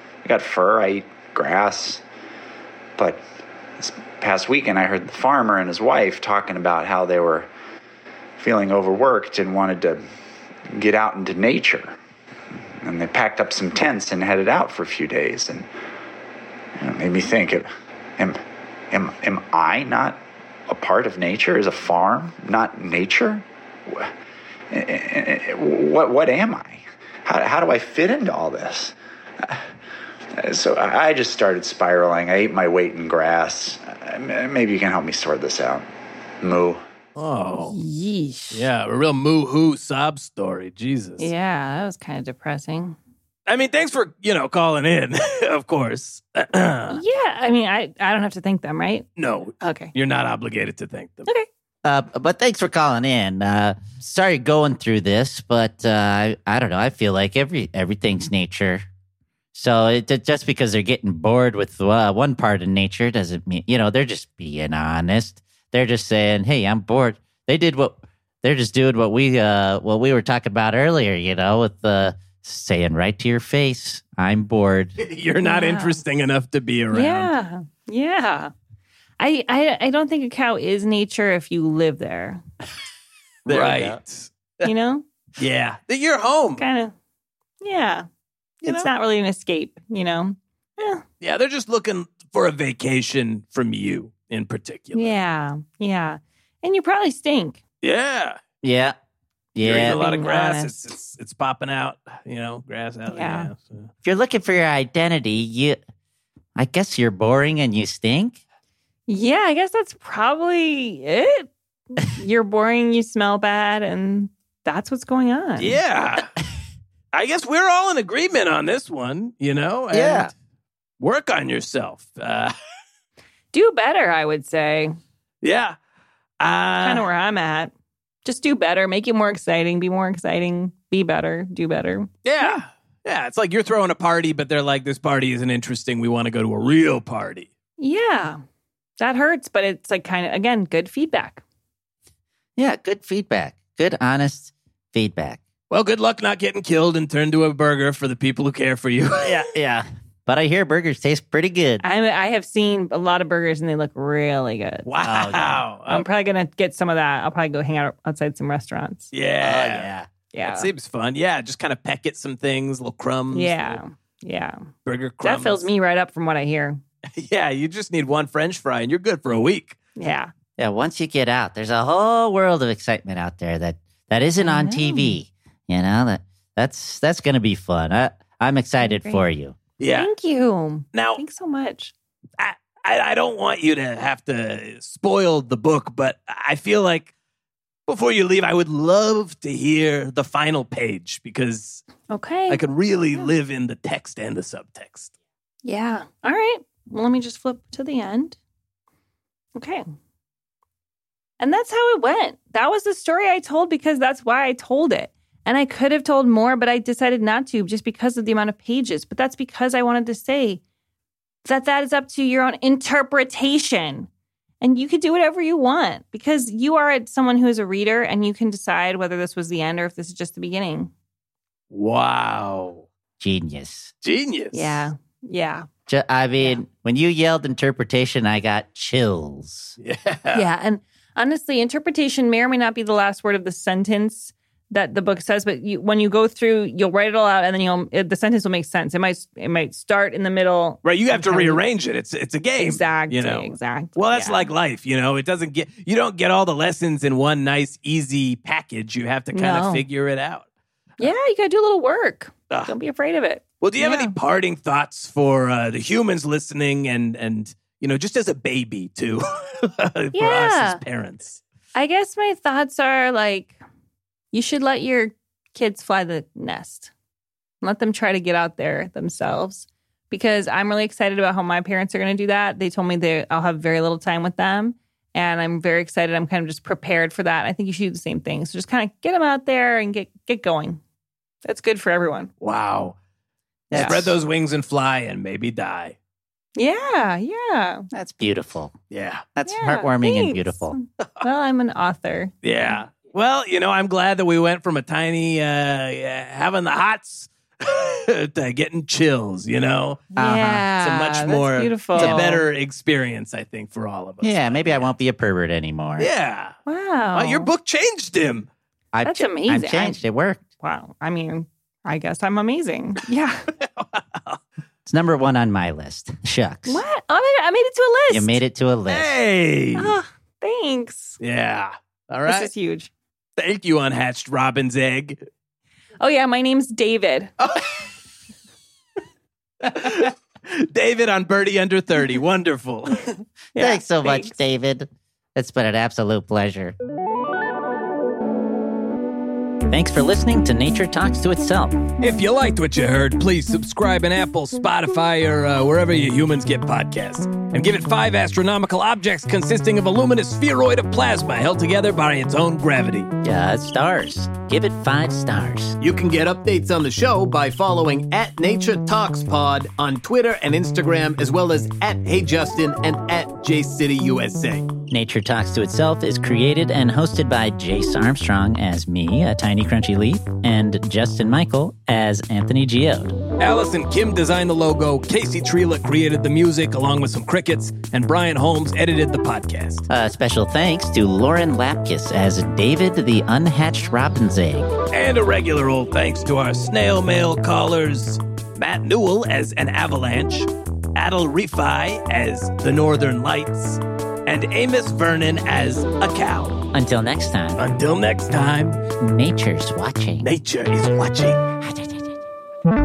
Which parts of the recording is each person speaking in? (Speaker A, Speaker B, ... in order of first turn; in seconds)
Speaker A: 0.2-2.0, 3.0-3.2, 3.8-7.5, 8.4-10.0, 10.7-11.9, 12.8-15.7, 16.8-18.4, 18.9-24.1, 24.7-29.6, 30.4-35.9, 36.4-36.8
Speaker B: 37.1-37.8, 38.5-41.3, 43.5-47.0, 49.2-51.3, 75.0-77.3, 83.5-84.7, 85.4-86.6, 88.6-88.9, 91.2-95.2, 97.8-98.4, 99.6-103.9, 115.6-116.3, 117.1-120.3, 121.0-122.5, 125.4-125.8, 126.4-127.0, 132.2-137.5, 145.7-149.4, 154.8-156.1, 159.1-159.9, 160.4-163.8, 164.8-165.7, 167.2-169.8, 179.8-180.1, 180.9-181.2, 182.4-187.1, 187.9-191.8, 192.5-195.1, 221.7-222.8, 224.0-224.8, 229.8-230.4, 240.8-250.4, 253.6-261.4, 282.4-283.0, 283.7-285.9, 288.9-289.2, 292.4-300.0, 300.8-304.9, 306.0-306.5, 307.1-308.5, 313.6-314.4, 318.9-319.9, 321.2-322.5, 323.4-325.2, 327.4-327.7, 329.6-333.1, 342.0-353.1, 373.4-379.8, 384.9-396.6, 397.6-398.8, 400.2-401.4
Speaker C: 37.7-38.6, 41.2-43.0, 46.9-49.1, 49.6-49.9, 75.4-76.0, 76.9-78.5, 79.2-82.4, 84.6-85.0, 86.6-86.9, 87.6-88.1, 88.6-91.0, 94.9-97.6, 99.8-100.8, 103.1-103.5, 109.1-115.8, 123.5-125.0, 126.8-127.7, 128.2-132.6, 137.8-138.4, 139.0-141.4, 151.8-154.8, 155.9-159.1, 160.3-160.7, 163.3-164.7, 165.2-166.8, 169.9-170.3, 174.4-175.2, 178.8-179.2, 179.9-181.9, 192.1-193.3, 195.6-198.4, 199.5-199.8, 201.4-210.6, 211.4-214.1, 214.6-220.9, 224.5-225.7, 230.3-241.6, 242.6-244.5, 249.3-249.8, 251.0-254.1, 260.1-260.8, 261.7-263.6, 264.3-266.9, 267.6-280.8, 281.4-282.3, 283.7-284.0, 286.6-287.9, 289.5-292.8, 300.1-302.4, 306.7-307.5, 309.0-310.0, 310.6-313.5, 316.7-318.4, 319.8-321.2, 322.3-322.9, 326.0-327.3, 333.5-334.4
Speaker D: 51.8-58.8, 59.5-75.0, 83.5-84.0, 98.6-98.9, 99.5-100.0, 104.0-105.8, 106.5-108.4, 119.9-120.3, 142.6-145.4, 149.2-151.8, 155.0-155.6, 159.4-160.1, 170.6-179.6, 223.2-223.9, 225.9-229.8, 283.7-284.1, 287.9-288.8, 289.3-290.7, 300.2-300.6, 302.0-302.2, 304.2-306.1, 308.9-310.4, 314.9-316.8, 318.1-319.1, 333.5-336.7, 339.7-341.8, 353.2-355.8, 364.9-373.2, 379.9-384.7, 396.7-397.6, 399.0-400.3, 401.6-402.1
Speaker E: 355.8-364.7